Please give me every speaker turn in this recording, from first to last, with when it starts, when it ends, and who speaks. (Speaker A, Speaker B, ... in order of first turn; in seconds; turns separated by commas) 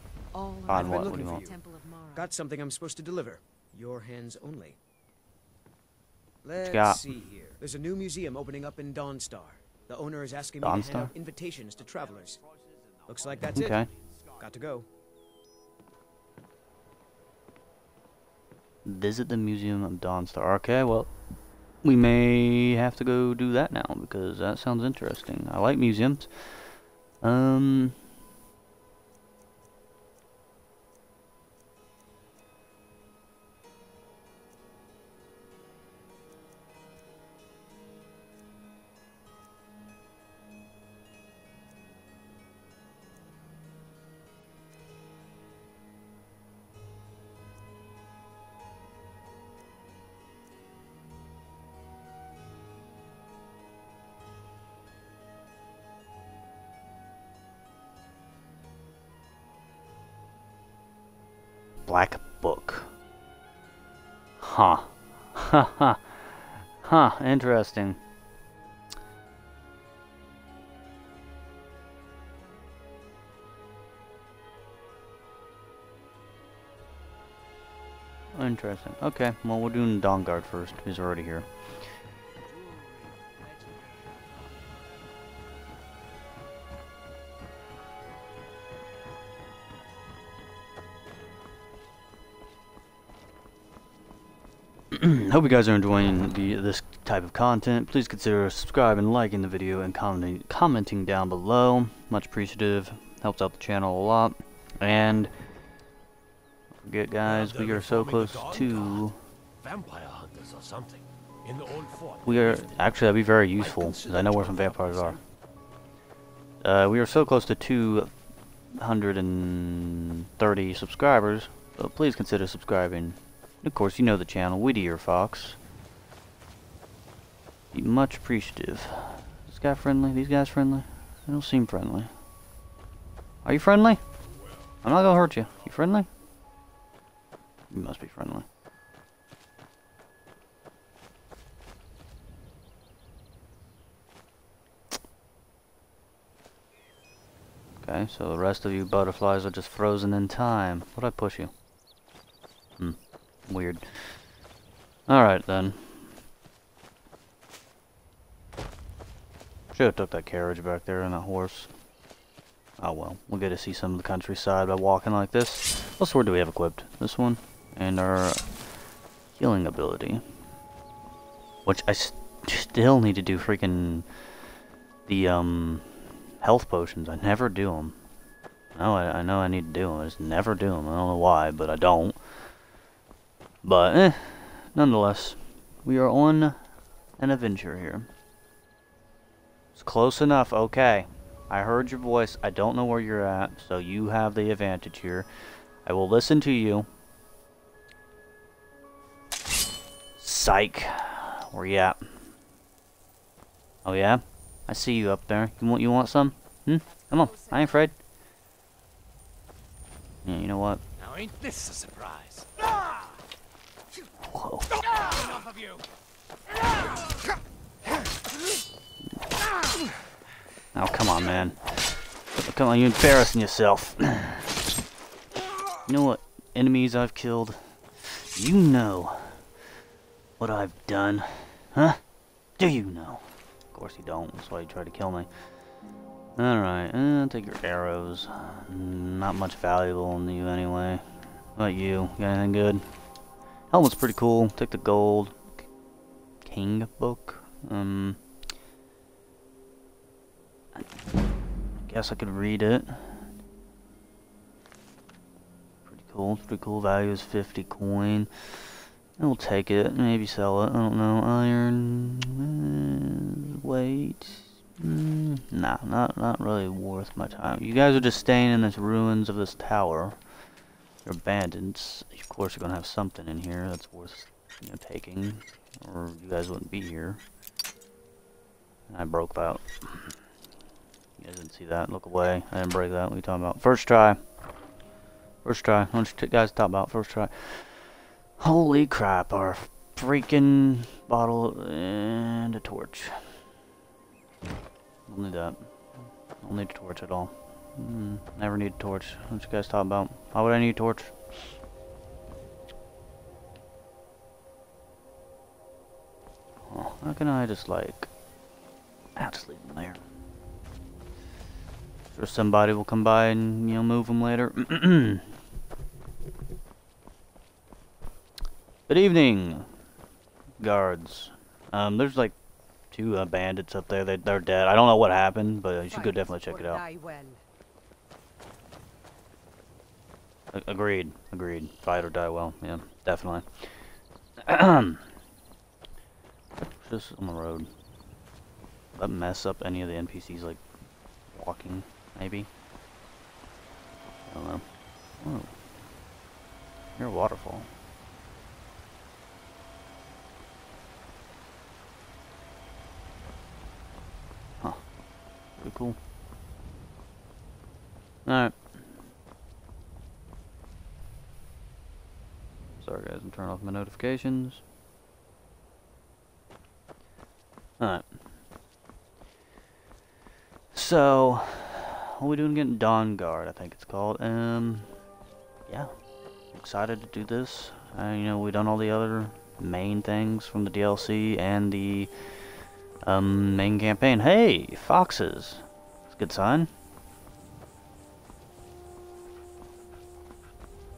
Speaker A: 0.3-2.3, Speaker B: 0.7-1.6, Speaker C: 0.7-1.5, Speaker B: 2.1-4.8, Speaker B: 6.4-12.4, Speaker C: 6.5-7.0, Speaker C: 10.6-11.1, Speaker D: 13.0-13.6, Speaker B: 13.1-13.8, Speaker C: 13.5-13.9, Speaker B: 14.4-14.9, Speaker C: 18.8-21.1, Speaker C: 21.8-27.9, Speaker C: 61.9-62.9, Speaker C: 64.4-68.0, Speaker C: 78.3-81.5, Speaker C: 94.9-105.3, Speaker C: 106.8-109.2, Speaker D: 107.2-109.1, Speaker D: 109.6-113.0, Speaker C: 112.2-115.2, Speaker D: 113.5-115.2, Speaker C: 116.6-118.1, Speaker C: 118.8-125.6, Speaker C: 127.7-132.1, Speaker C: 133.4-134.0, Speaker C: 134.8-136.1, Speaker C: 137.7-138.5, Speaker C: 147.8-151.5, Speaker C: 152.8-154.2, Speaker C: 155.1-156.1, Speaker C: 159.7-161.7, Speaker C: 162.8-168.4, Speaker C: 169.3-170.2, Speaker C: 171.6-174.1, Speaker C: 175.1-177.9, Speaker C: 178.8-182.2, Speaker C: 183.6-186.6, Speaker C: 187.2-188.1, Speaker C: 189.8-195.3, Speaker C: 195.8-196.9, Speaker C: 200.2-202.1, Speaker C: 203.8-207.9, Speaker A: 206.9-207.9, Speaker C: 210.2-210.8, Speaker D: 211.0-212.5, Speaker C: 214.2-214.7, Speaker D: 215.0-215.8, Speaker C: 220.7-221.6, Speaker C: 222.4-224.6, Speaker C: 225.8-229.4, Speaker C: 230.4-232.0, Speaker C: 232.6-235.3, Speaker C: 236.3-241.0, Speaker C: 241.6-242.8, Speaker C: 243.7-245.5, Speaker C: 246.4-248.2, Speaker C: 251.9-253.2, Speaker C: 255.8-258.3, Speaker C: 259.2-270.2, Speaker C: 271.0-277.2, Speaker C: 278.9-280.1, Speaker C: 281.2-284.2, Speaker C: 285.4-293.4, Speaker C: 295.1-295.6, Speaker C: 296.4-301.1, Speaker C: 306.7-308.1, Speaker C: 309.1-310.0, Speaker C: 312.1-315.3, Speaker C: 318.9-319.7, Speaker C: 320.6-322.3, Speaker C: 322.9-326.8, Speaker A: 325.9-327.4, Speaker C: 330.5-333.7, Speaker C: 334.4-335.0, Speaker C: 336.6-337.7, Speaker C: 338.9-340.6, Speaker C: 341.3-342.5, Speaker C: 344.1-344.6, Speaker C: 345.2-345.5, Speaker C: 347.0-347.7, Speaker C: 355.6-356.0, Speaker C: 358.2-358.6, Speaker C: 362.8-364.6, Speaker C: 367.8-368.0, Speaker C: 370.7-374.9, Speaker C: 376.5-382.1, Speaker C: 383.0-386.7